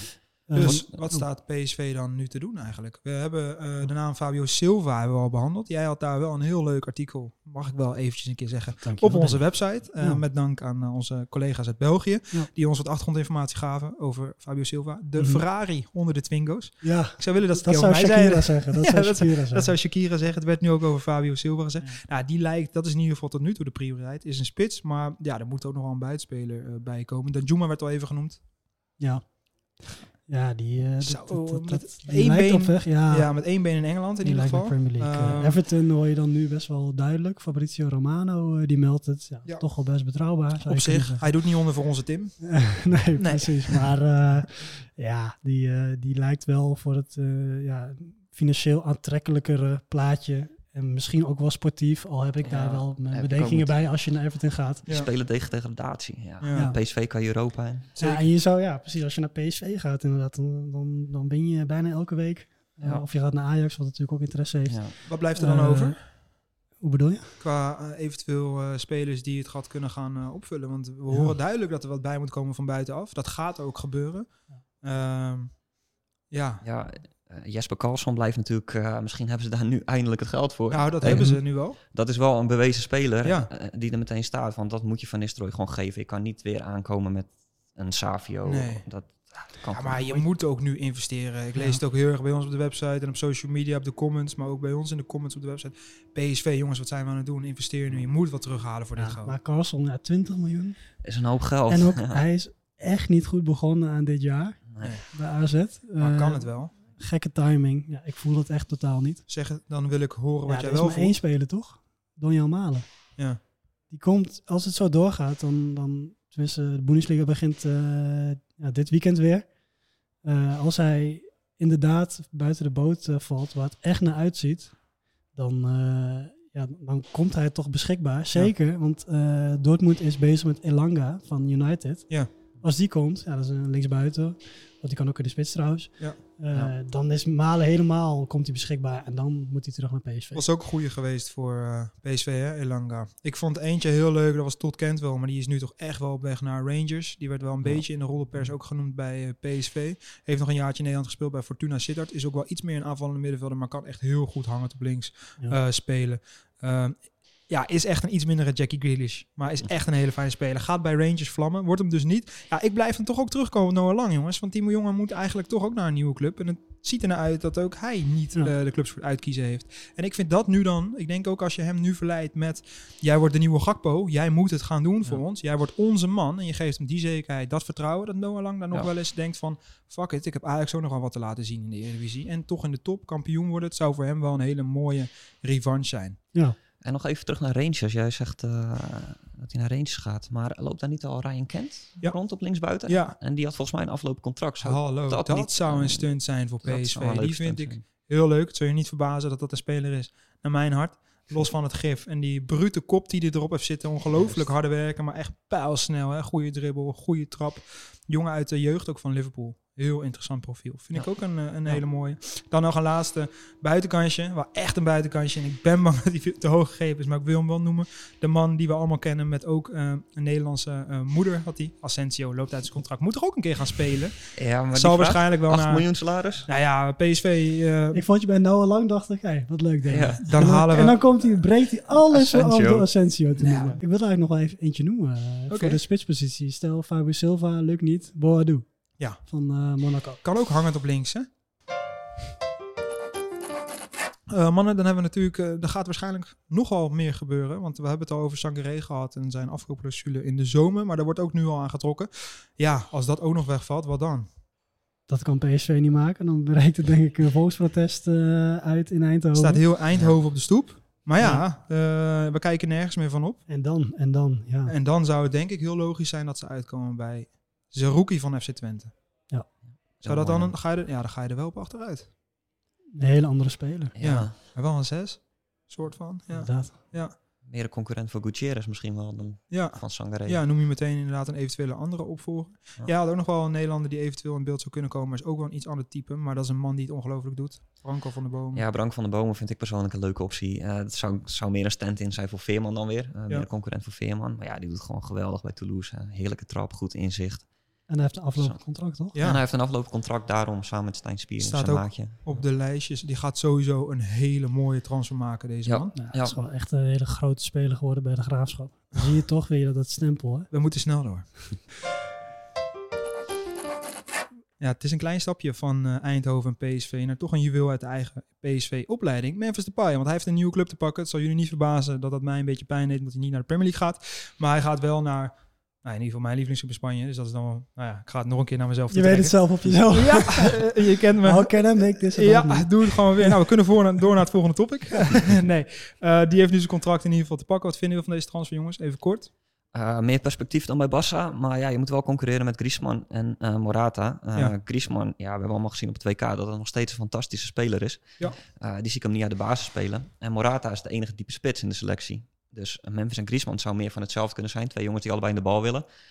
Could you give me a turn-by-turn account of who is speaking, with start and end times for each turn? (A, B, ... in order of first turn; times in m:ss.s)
0:00.4-0:28.4 A
0:00.5-0:01.2 B
0:08.8-0:09.4 B
0:15.2-0:15.4 B
0:16.8-0:19.7 B
0:29.0-0:29.2 B
0:30.2-0:33.3 B
0:31.0-0:35.6 A
0:34.2-0:41.3 B
0:40.6-0:42.4 A
0:42.4-0:54.9 B
0:43.1-0:43.9 A
0:52.4-0:53.8 C
0:54.9-0:57.9 C
0:56.4-0:56.7 A
0:57.9-0:58.2 A
0:58.0-1:06.0 B
1:04.7-1:04.9 C
1:05.0-1:06.0 A
1:06.8-1:07.4 B
1:07.4-1:14.3 A
1:11.1-1:11.4 B
1:14.8-1:15.6 A
1:16.3-1:16.6 A
1:16.6-1:30.2 C
1:20.7-1:21.8 A
1:21.0-1:21.4 B
1:23.2-1:23.5 A
1:28.4-1:28.8 A
1:29.7-1:39.3 A
1:31.5-1:31.8 B
1:39.0-1:40.8 B
1:41.0-1:42.2 C
1:41.7-1:49.2 B
1:46.0-1:46.7 A
1:49.3-1:51.2 A
1:50.4-1:52.8 B
1:53.9-1:59.5 B
2:00.2-2:04.7 B
2:05.3-2:20.4 B
2:20.3-3:06.2 A
3:06.8-3:16.0 C
3:12.8-3:13.2 A
3:14.6-3:44.2 A
3:16.6-3:17.8 C
3:24.2-3:24.4 C
3:44.3-3:46.5 C
3:44.7-3:45.9 A
3:46.4-3:48.0 A
3:47.9-4:00.2 B
3:49.9-3:50.2 C
3:50.2-3:51.0 A
3:52.1-3:52.9 C
3:53.4-3:53.8 A
3:55.5-3:55.8 A
4:00.2-4:01.3 A
4:04.3-4:14.3 A
4:15.1-4:19.6 B
4:19.3-4:23.4 A
4:21.2-4:21.4 B
4:23.5-4:24.7 B
4:24.7-4:28.9 A
4:30.0-4:30.5 C
4:30.0-4:32.1 A
4:32.9-4:33.9 B
4:34.0-4:34.3 C
4:34.0-4:37.1 A
4:36.3-4:36.8 B
4:37.4-4:40.4 C
4:39.5-4:48.6 A
4:48.5-4:57.5 C
4:57.9-4:59.2 B
4:59.1-5:02.4 C
4:59.1-4:59.4 A
5:01.4-5:06.0 A
5:05.6-5:06.4 C
5:05.9-5:10.5 B
5:10.5-5:11.5 A
5:14.6-5:39.3 A
5:28.9-5:33.4 B
5:39.7-5:55.8 C